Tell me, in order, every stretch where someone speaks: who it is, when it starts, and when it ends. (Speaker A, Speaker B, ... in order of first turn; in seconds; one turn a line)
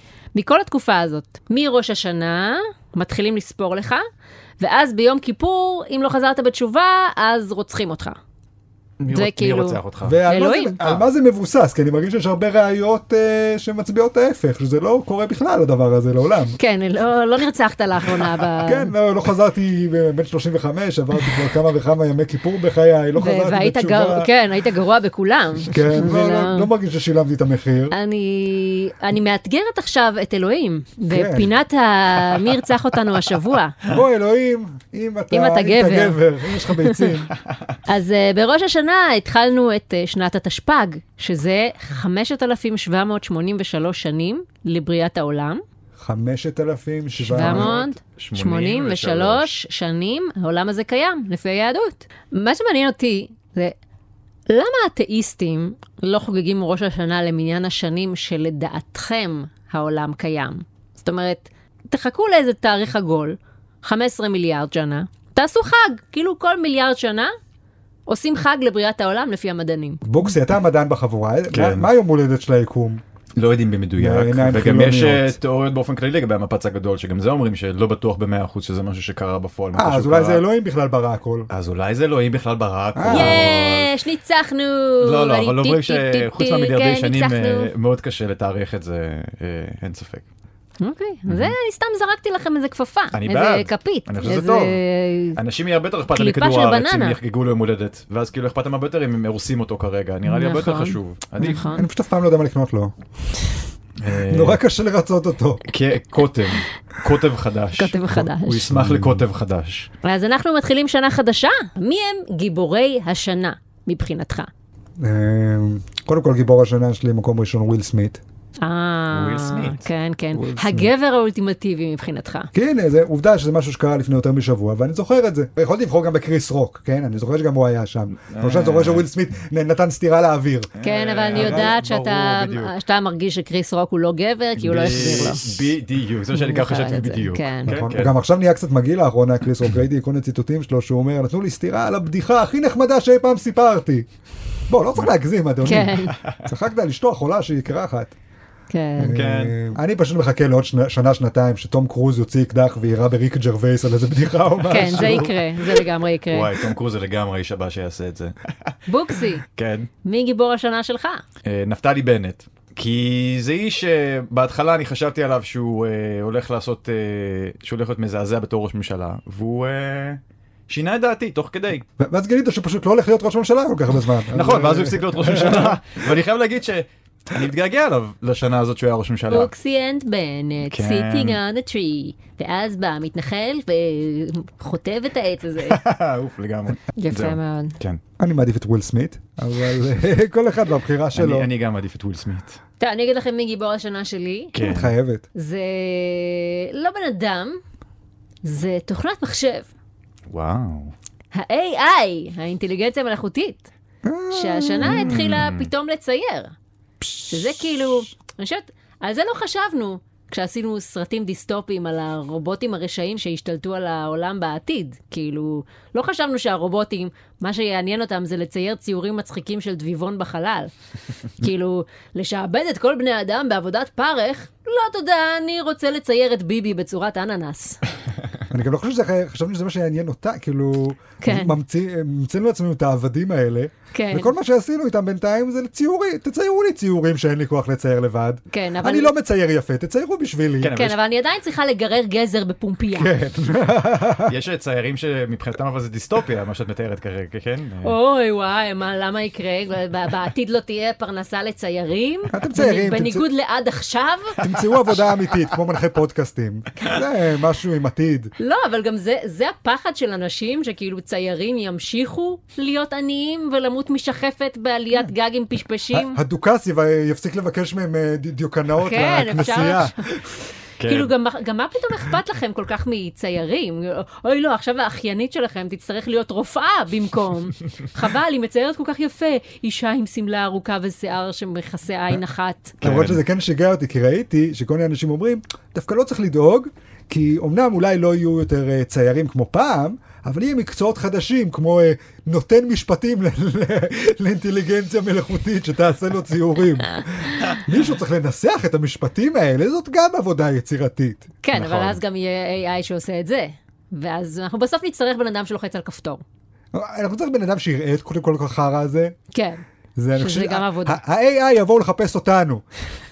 Speaker A: 0.3-4.0
Speaker A: 4.6-8.2
Speaker B: 9.0-10.2
Speaker A: 9.1-10.8
Speaker C: 10.0-16.6
Speaker B: 10.8-11.1
Speaker A: 16.6-18.9
Speaker C: 18.6-24.3
Speaker A: 23.2-26.7
Speaker C: 25.7-27.9
Speaker A: 27.9-33.8
Speaker C: 31.1-31.5
Speaker C: 33.8-37.3
Speaker A: 35.3-36.2
Speaker A: 36.7-37.0
Speaker A: 37.9-45.6
Speaker C: 46.0-47.7
Speaker A: 47.3-53.7
Speaker B: 47.3-49.5
Speaker A: 54.5-67.3
Speaker A: 68.1-70.0
Speaker C: 70.0-73.0
Speaker B: 71.5-71.9
Speaker B: 73.4-80.4
Speaker C: 74.0-75.4
Speaker C: 79.7-81.5
Speaker B: 81.5-83.9
Speaker C: 82.9-83.5
Speaker A: 83.1-87.7
Speaker B: 85.0-90.3
Speaker A: 90.8-95.4
Speaker B: 91.3-91.5
Speaker B: 93.1-94.8
Speaker B: 95.3-101.6
Speaker A: 96.1-97.2
Speaker A: 100.2-101.8
Speaker C: 101.5-102.9
Speaker B: 104.0-104.6
Speaker C: 104.3-105.7
Speaker B: 105.7-109.9
Speaker A: 107.8-108.6
Speaker C: 108.7-109.2
Speaker A: 110.0-114.5
Speaker C: 115.0-118.2
Speaker A: 118.6-122.5
Speaker B: 119.1-119.9
Speaker C: 120.3-120.9
Speaker C: 122.5-130.7
Speaker B: 128.3-129.1
Speaker B: 130.8-132.7
Speaker A: 130.8-135.7
Speaker C: 131.3-131.7
Speaker B: 134.6-138.1
Speaker A: 136.3-137.7
Speaker C: 137.7-144.1
Speaker C: 144.7-148.1
Speaker A: 145.6-146.2
Speaker B: 146.2-146.5
Speaker A: 148.7-149.1
Speaker C: 149.0-155.3
Speaker B: 149.0-149.7
Speaker A: 154.7-156.5
Speaker B: 154.8-155.3
Speaker B: 156.3-158.7
Speaker A: 158.9-159.4
Speaker B: 159.5-159.9
Speaker A: 160.0-161.2
Speaker B: 161.4-171.8
Speaker C: 172.0-175.8
Speaker B: 174.3-179.5
Speaker A: 179.3-185.8
Speaker B: 180.7-181.4
Speaker B: 185.7-188.0
Speaker A: 187.0-187.8
Speaker C: 188.2-191.5
Speaker B: 191.1-192.6
Speaker A: 192.8-194.5
Speaker B: 194.5-194.9
Speaker C: 194.6-195.2
Speaker A: 195.3-197.6
Speaker A: 198.4-199.7
Speaker B: 200.3-200.9
Speaker A: 201.3-203.7
Speaker C: 204.0-205.1
Speaker A: 204.3-206.5
Speaker B: 204.8-205.7
Speaker C: 207.0-208.0
Speaker A: 207.3-220.7
Speaker A: 221.4-227.8
Speaker C: 228.5-240.8
Speaker A: 231.2-231.5
Speaker A: 233.9-234.3
Speaker A: 238.5-239.1
Speaker B: 240.6-241.0
Speaker A: 240.7-243.1
Speaker C: 242.9-244.3
Speaker B: 244.3-247.9
Speaker A: 247.8-254.4
Speaker C: 252.3-253.2
Speaker C: 254.4-258.3
Speaker A: 258.4-266.2
Speaker C: 265.9-270.4
Speaker A: 268.8-270.1
Speaker B: 270.8-271.1
Speaker A: 270.8-282.8
Speaker B: 282.8-283.2
Speaker C: 282.8-301.3
Speaker A: 301.4-306.2
Speaker B: 301.5-302.0
Speaker C: 306.7-309.1
Speaker A: 309.3-309.6
Speaker C: 309.9-312.6
Speaker A: 310.1-311.0